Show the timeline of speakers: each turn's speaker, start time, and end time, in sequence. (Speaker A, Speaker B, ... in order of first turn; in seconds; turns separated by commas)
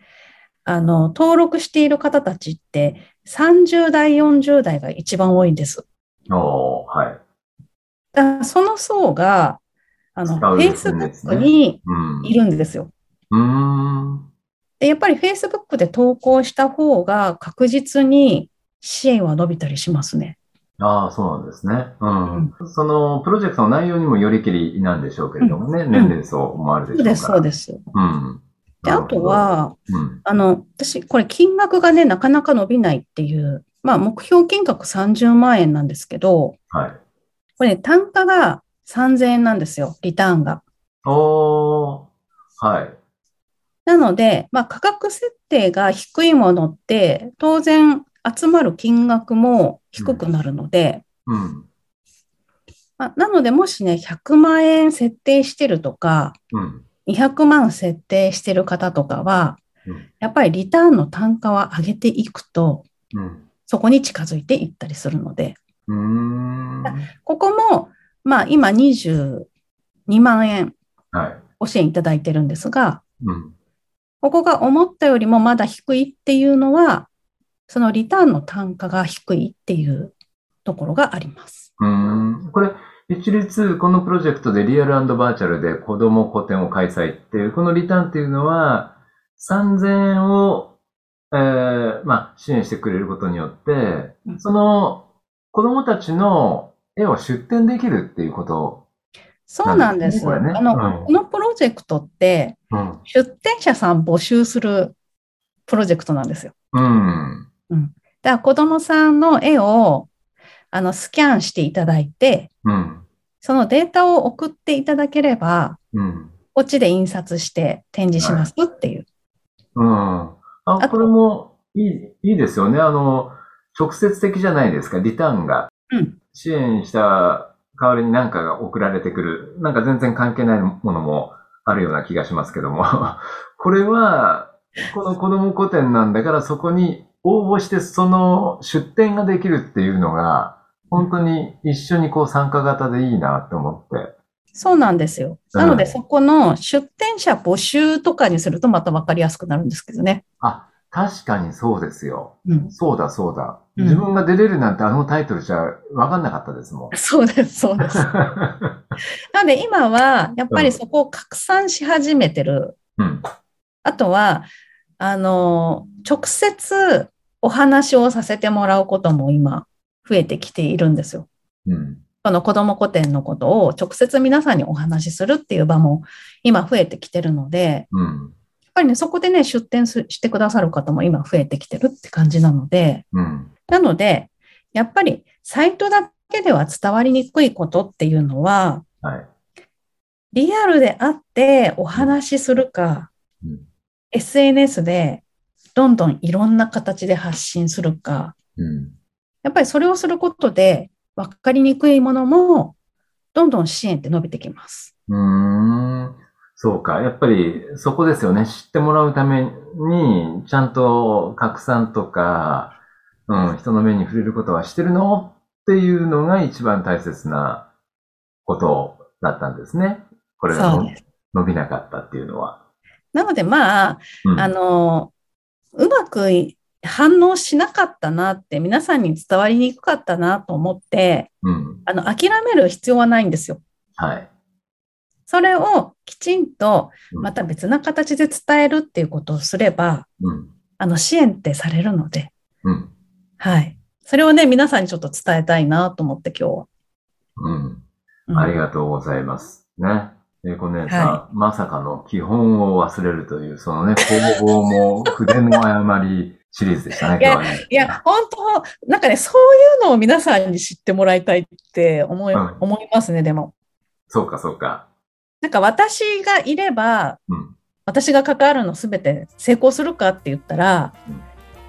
Speaker A: 0.6-5.8, Speaker B: 6.3-7.2, Speaker A: 8.1-9.6, Speaker A: 10.1-12.9, Speaker B: 10.2-12.4, Speaker B: 13.3-14.2, Speaker A: 14.8-20.4, Speaker B: 20.8-30.2, Speaker A: 25.4-26.1, Speaker A: 26.9-27.8, Speaker A: 28.8-36.5, Speaker B: 36.7-37.0, Speaker A: 37.6-40.6, Speaker B: 41.0-42.1, Speaker B: 42.6-43.0, Speaker A: 43.8-51.0, Speaker B: 50.0-50.2, Speaker B: 51.3-51.7, Speaker A: 53.0-56.4, Speaker B: 56.5-56.8, Speaker A: 57.0-59.6, Speaker A: 60.2-62.9, Speaker B: 63.1-63.5, Speaker A: 63.7-65.6, Speaker B: 65.9-67.1, Speaker A: 66.8-69.5, Speaker A: 70.1-70.8, Speaker B: 71.1-71.4, Speaker A: 71.6-73.0, Speaker B: 73.2-73.5, Speaker A: 74.2-77.1, Speaker A: 77.7-80.1, Speaker A: 80.6-81.7, Speaker B: 81.8-90.7, Speaker B: 91.3-98.8, Speaker A: 99.5-105.0, Speaker B: 99.6-101.1, Speaker B: 102.7-103.0, Speaker A: 105.7-106.5, Speaker B: 106.7-107.5, Speaker A: 107.7-110.1, Speaker A: 110.7-112.5, Speaker B: 112.6-113.0, Speaker A: 113.4-115.8, Speaker B: 115.9-116.3, Speaker A: 116.5-119.1, Speaker B: 118.2-118.4, Speaker B: 119.8-125.7, Speaker A: 120.8-121.1, Speaker B: 126.3-144.1, Speaker A: 144.5-150.2, Speaker B: 145.5-145.9, Speaker B: 150.4-156.9, Speaker A: 152.4-152.7, Speaker A: 153.8-154.0, Speaker A: 156.9-158.1, Speaker B: 158.1-158.7, Speaker A: 159.3-162.8, Speaker B: 160.5-160.8, Speaker B: 163.0-163.2, Speaker A: 163.8-164.5, Speaker A: 165.0-171.3, Speaker B: 171.7-172.0, Speaker A: 172.2-177.9, Speaker B: 177.9-178.3, Speaker A: 178.7-183.0, Speaker B: 183.1-183.5, Speaker A: 183.7-188.8, Speaker B: 189.0-189.3, Speaker A: 190.3-193.1, Speaker A: 194.1-195.2, Speaker A: 195.7-198.3, Speaker B: 198.6-198.9, Speaker A: 199.4-202.7, Speaker A: 203.3-204.9, Speaker B: 205.1-212.7, Speaker B: 213.3-217.7, Speaker B: 218.4-222.6, Speaker A: 220.5-221.0, Speaker A: 223.1-225.1, Speaker B: 224.2-224.5, Speaker A: 225.7-231.3, Speaker B: 231.4-231.8, Speaker A: 231.8-233.6, Speaker B: 234.0-234.3, Speaker A: 235.3-240.1, Speaker B: 240.2-240.5, Speaker A: 240.8-242.3, Speaker B: 242.6-242.9, Speaker A: 243.4-246.7, Speaker B: 247.4-247.8, Speaker A: 248.3-248.5, Speaker B: 248.3-258.0, Speaker A: 250.9-251.2, Speaker A: 254.0-254.4, Speaker A: 257.2-263.5, Speaker B: 262.3-262.6, Speaker B: 264.1-264.8, Speaker A: 265.4-267.2, Speaker B: 267.3-267.5, Speaker A: 267.9-270.9